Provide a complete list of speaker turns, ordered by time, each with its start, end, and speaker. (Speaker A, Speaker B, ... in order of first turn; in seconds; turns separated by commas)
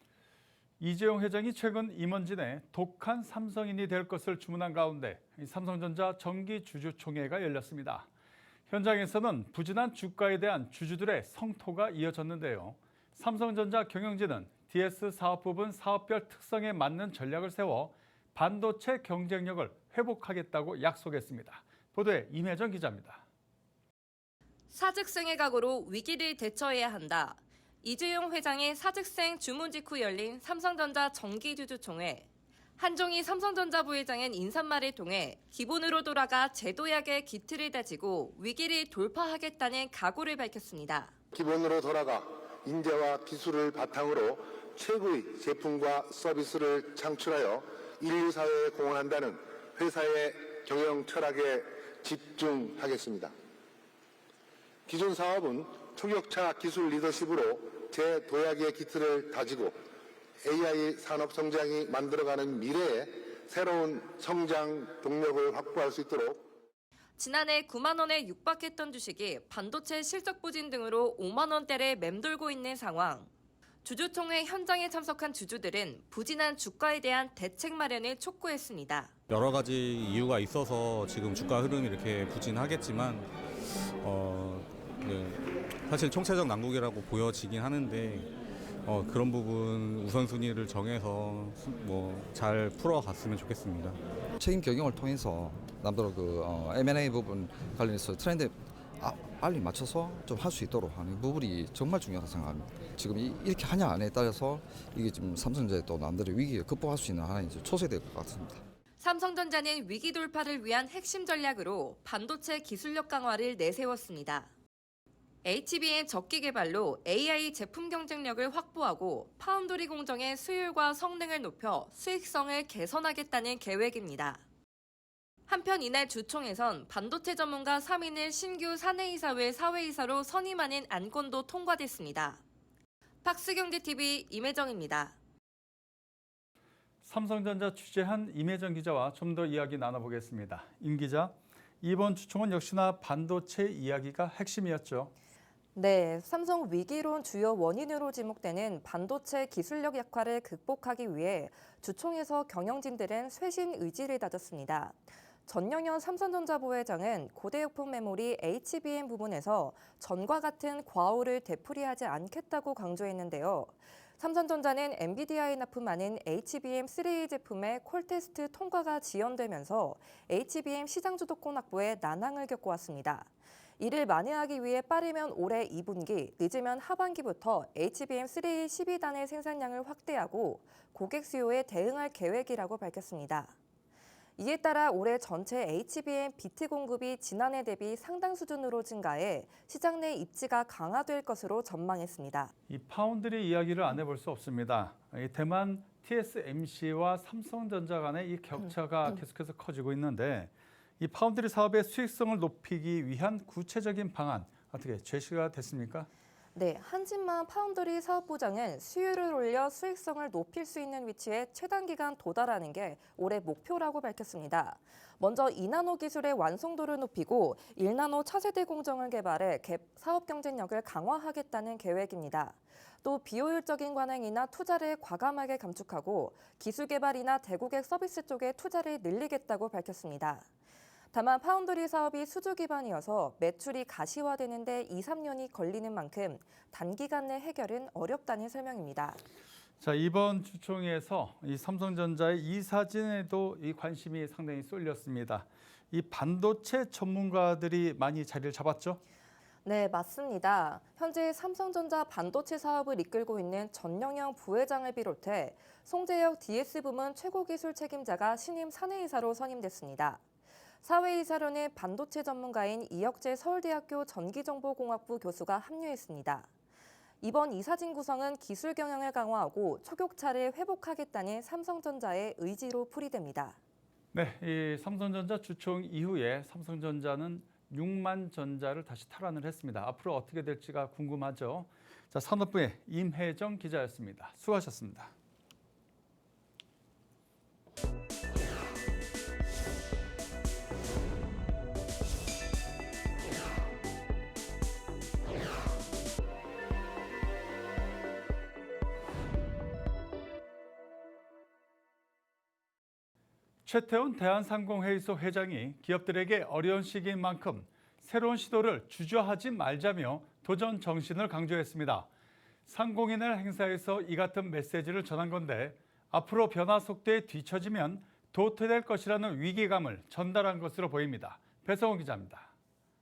Speaker A: 0.8-8.1, Speaker A: 8.7-23.2, Speaker B: 24.7-32.2, Speaker B: 32.8-41.1, Speaker C: 41.3-53.3, Speaker C: 54.9-59.8, Speaker C: 60.4-66.5, Speaker B: 67.2-73.3, Speaker B: 73.8-79.1, Speaker D: 79.3-83.3, Speaker D: 84.0-88.3, Speaker D: 88.8-94.0, Speaker E: 94.4-108.6, Speaker B: 109.0-114.5, Speaker B: 115.4-124.4, Speaker B: 125.5-132.4, Speaker B: 133.2-135.2, Speaker A: 137.0-145.1, Speaker F: 145.7-183.6, Speaker F: 184.4-192.5, Speaker A: 192.7-206.1, Speaker F: 198.6-199.2, Speaker F: 206.5-230.5, Speaker F: 231.1-239.2, Speaker A: 239.8-249.0, Speaker F: 249.6-260.2, Speaker F: 260.8-266.5, Speaker F: 267.2-273.6, Speaker A: 274.1-285.1, Speaker A: 303.6-312.1, Speaker A: 312.7-322.5